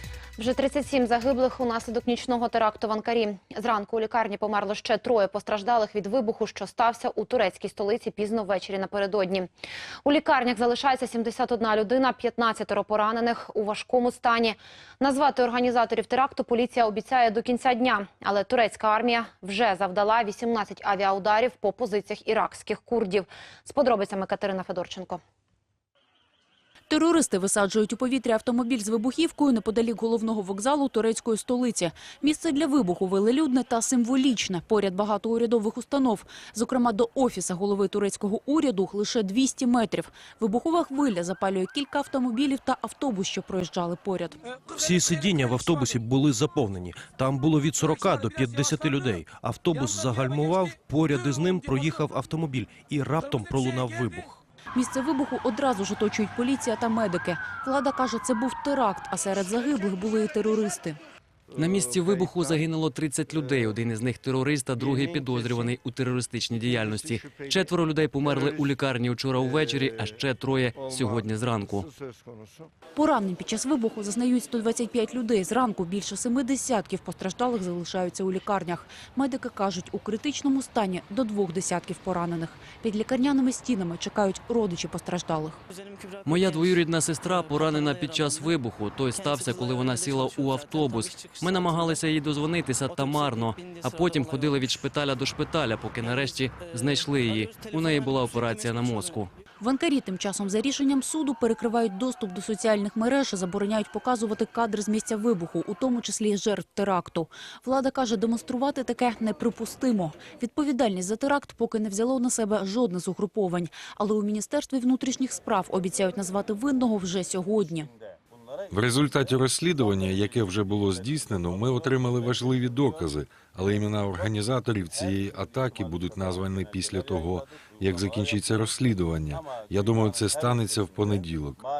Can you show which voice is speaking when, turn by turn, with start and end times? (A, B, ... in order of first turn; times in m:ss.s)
0:00.4-0:09.5 A
0:10.0-0:25.2 A
0:26.9-0:44.4 B
0:44.7-0:54.4 C
0:54.8-1:01.0 B
1:01.6-1:11.9 D
1:13.0-1:25.6 B
1:26.2-1:39.3 D
1:39.6-1:57.9 B
1:58.7-2:11.6 E